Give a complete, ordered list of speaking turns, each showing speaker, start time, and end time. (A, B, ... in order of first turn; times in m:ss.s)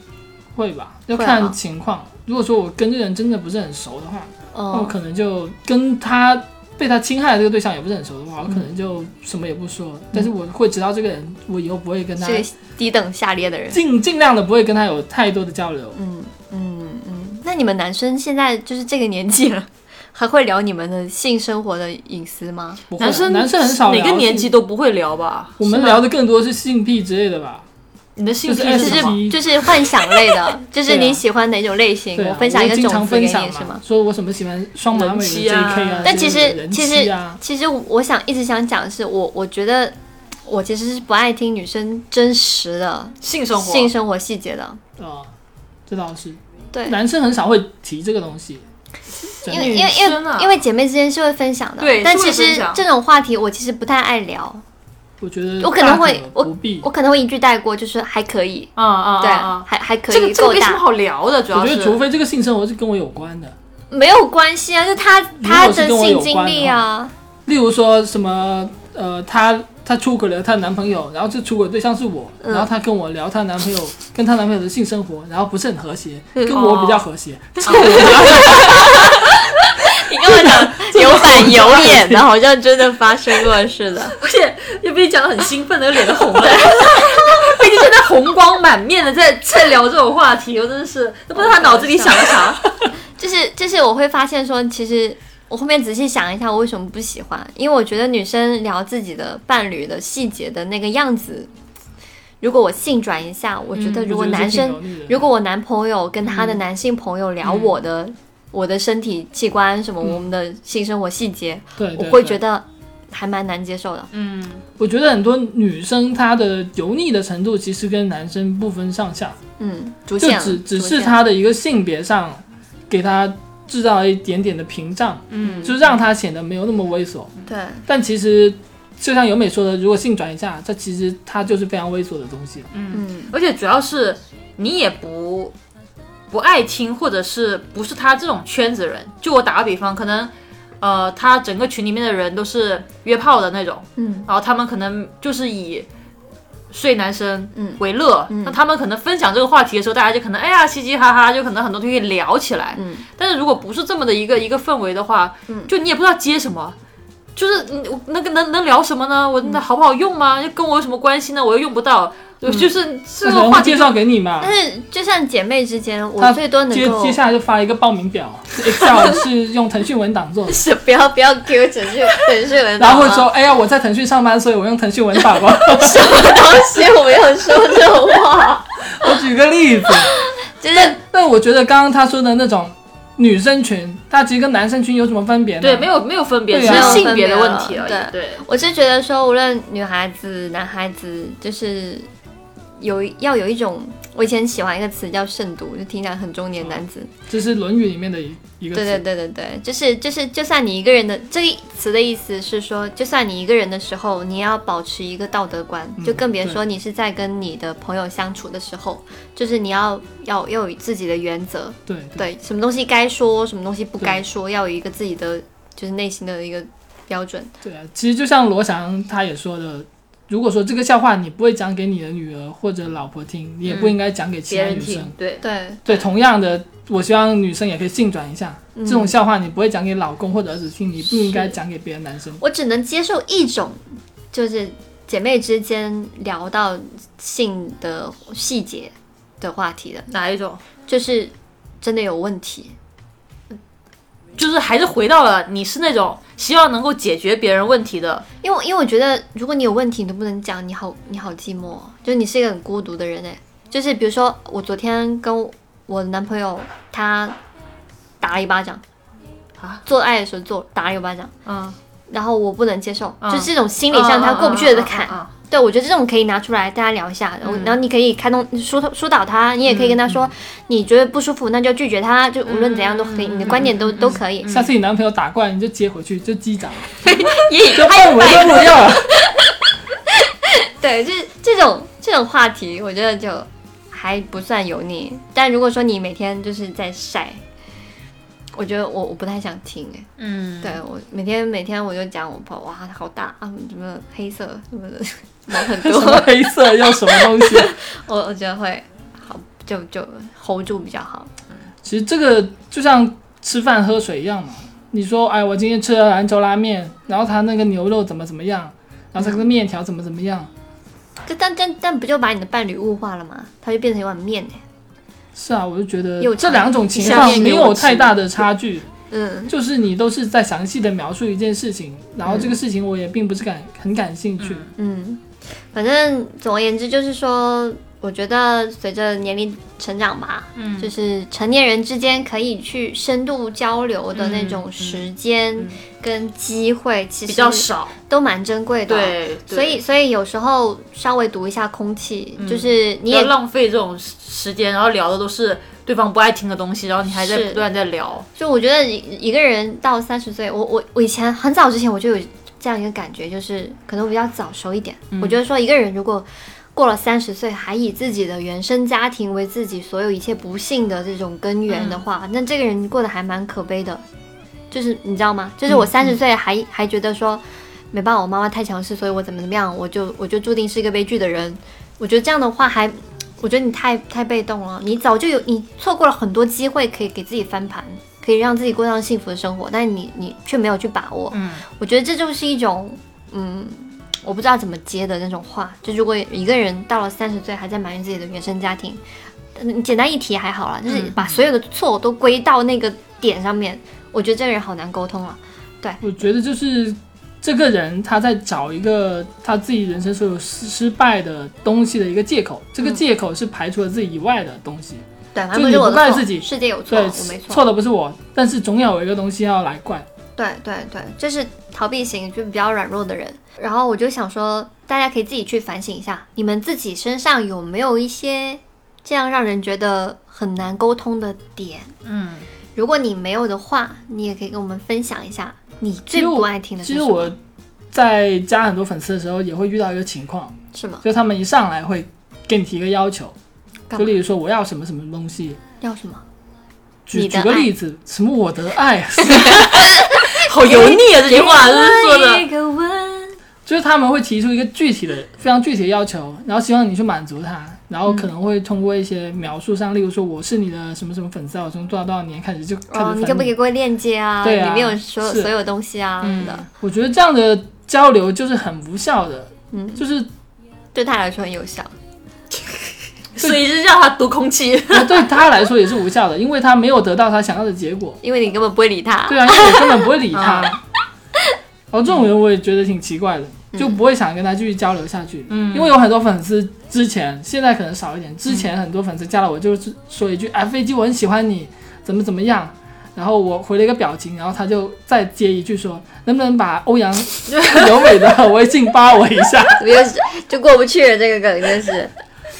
0:00.5-0:12.4 A
0:01.1-0:01.5 B
0:04.5-0:04.9 B
0:12.2-0:13.8 B
0:13.7-0:16.0 A
0:16.0-0:22.8 B
0:22.9-0:24.5 A
0:23.0-0:26.0 C
0:25.6-0:27.6 A
0:25.7-0:26.0 B
0:28.2-0:30.3 C
0:28.5-0:29.4 A
0:28.7-0:33.8 B
0:30.8-0:31.2 A
0:32.2-0:37.4 A
0:34.9-0:36.3 C
0:36.0-0:39.9 B
0:40.4-0:44.8 B
0:43.2-0:43.9 C
0:45.0-0:45.3 A
0:45.9-0:48.6 A
0:49.4-0:50.0 A
0:49.4-0:54.6 B
0:49.8-0:50.6 C
0:51.8-0:52.8 C
0:55.2-0:56.9 A
0:55.6-1:00.8 B
0:58.8-1:02.0 C
1:01.5-1:03.5 A
1:03.9-1:07.1 B
1:05.4-1:06.8 A
1:07.4-1:18.8 A
1:12.4-1:12.7 B
1:16.3-1:16.6 B
1:16.4-1:17.0 C
1:17.6-1:19.4 C
1:17.6-1:24.2 B
1:20.3-1:22.2 A
1:24.2-1:32.6 C
1:26.4-1:27.4 B
1:31.3-1:32.6 B
1:33.2-1:41.5 B
1:42.4-1:54.1 B
1:43.7-1:44.1 C
1:44.0-1:45.3 A
1:46.2-1:46.6 C
1:47.4-1:47.7 C
1:51.8-1:52.4 A
1:54.1-1:54.6 C
1:54.8-1:59.4 A
1:59.6-2:01.2 B
2:00.2-2:07.3 A
2:05.3-2:05.9 C
2:05.4-2:05.7 B
2:07.5-2:07.8 B
2:07.9-2:12.7 A
2:12.7-2:15.5 C
2:12.9-2:13.3 B
2:16.3-2:25.9 C
2:24.0-2:24.3 B
2:26.7-2:36.8 C
2:27.5-2:28.6 B
2:32.8-2:33.0 B
2:37.4-2:43.9 C
2:42.4-2:42.7 B
2:43.2-2:44.5 A
2:44.4-2:47.2 B
2:46.2-2:50.6 A
2:48.8-2:49.1 B
2:50.5-2:53.3 B
2:52.8-2:56.4 A
2:55.6-2:59.2 B
2:58.9-3:00.1 A
3:00.0-3:01.0 B
3:00.7-3:05.9 A
3:05.6-3:08.4 C
3:06.5-3:07.1 A
3:06.6-3:12.1 B
3:12.8-3:17.1 B
3:16.6-3:19.0 A
3:18.7-3:37.5 B
3:26.0-3:26.6 A
3:31.9-3:32.3 A
3:37.6-3:45.1 A
3:43.6-3:43.9 C
3:44.5-3:45.4 C
3:45.4-3:46.0 B
3:45.8-3:52.4 A
3:48.7-3:49.1 B
3:52.4-3:53.8 B
3:54.3-4:00.1 B
4:00.1-4:00.6 C
4:00.9-4:02.7 B
4:04.4-4:08.2 C
4:08.4-4:17.4 B
4:18.2-4:18.8 B
4:19.8-4:21.3 B
4:21.4-4:21.8 C
4:22.1-4:34.5 B
4:23.2-4:25.3 C
4:27.4-4:27.8 C
4:29.6-4:30.1 C
4:32.5-4:34.7 C
4:34.5-4:37.1 A
4:37.0-4:39.5 B
4:37.6-4:39.1 A
4:40.1-4:47.4 B
4:48.5-4:50.1 B
4:50.2-4:50.8 C
4:50.6-4:56.3 B
4:55.6-4:57.8 A
4:57.1-5:01.3 B
5:01.8-5:10.5 A
5:11.2-5:14.6 B
5:15.3-5:18.9 A
5:16.2-5:18.1 B
5:17.0-5:17.6 C
5:19.1-5:19.5 B
5:19.5-5:24.6 A
5:22.2-5:22.5 B
5:24.4-5:24.7 C
5:24.8-5:25.2 B
5:25.7-5:43.3 B
5:30.6-5:30.9 C
5:34.1-5:35.8 C
5:37.3-5:37.9 C
5:38.9-5:39.8 C
5:42.4-5:48.2 C
5:47.2-5:47.6 B
5:48.4-6:04.0 B
5:55.1-5:55.4 C
6:01.7-6:02.0 C
6:04.7-6:29.0 B
6:21.3-6:21.6 C
6:29.5-6:36.0 B
6:30.9-6:31.4 C
6:36.0-6:50.0 A
6:45.3-6:47.6 B
6:50.4-7:01.9 B
7:02.0-7:02.4 C
7:02.8-7:07.3 B
7:06.1-7:07.4 A
7:07.9-7:13.4 A
7:10.7-7:11.0 B
7:14.0-7:15.6 A
7:15.8-7:16.2 B
7:17.1-7:19.8 A
7:17.1-7:17.7 B
7:19.2-7:23.4 B
7:20.0-7:22.5 C
7:23.6-7:33.5 A
7:32.9-7:36.6 B
7:34.4-7:35.5 A
7:36.2-7:36.6 C
7:36.7-7:40.3 A
7:39.7-7:40.0 B
7:40.9-7:41.9 B
7:42.5-7:45.2 C
7:44.9-7:48.2 A
7:48.2-7:50.1 B
7:49.3-7:50.8 A
7:50.3-7:50.8 C
7:51.9-8:09.8 A
7:53.7-7:54.0 B
7:55.5-7:56.0 C
8:07.5-8:07.9 C
8:09.8-8:12.1 B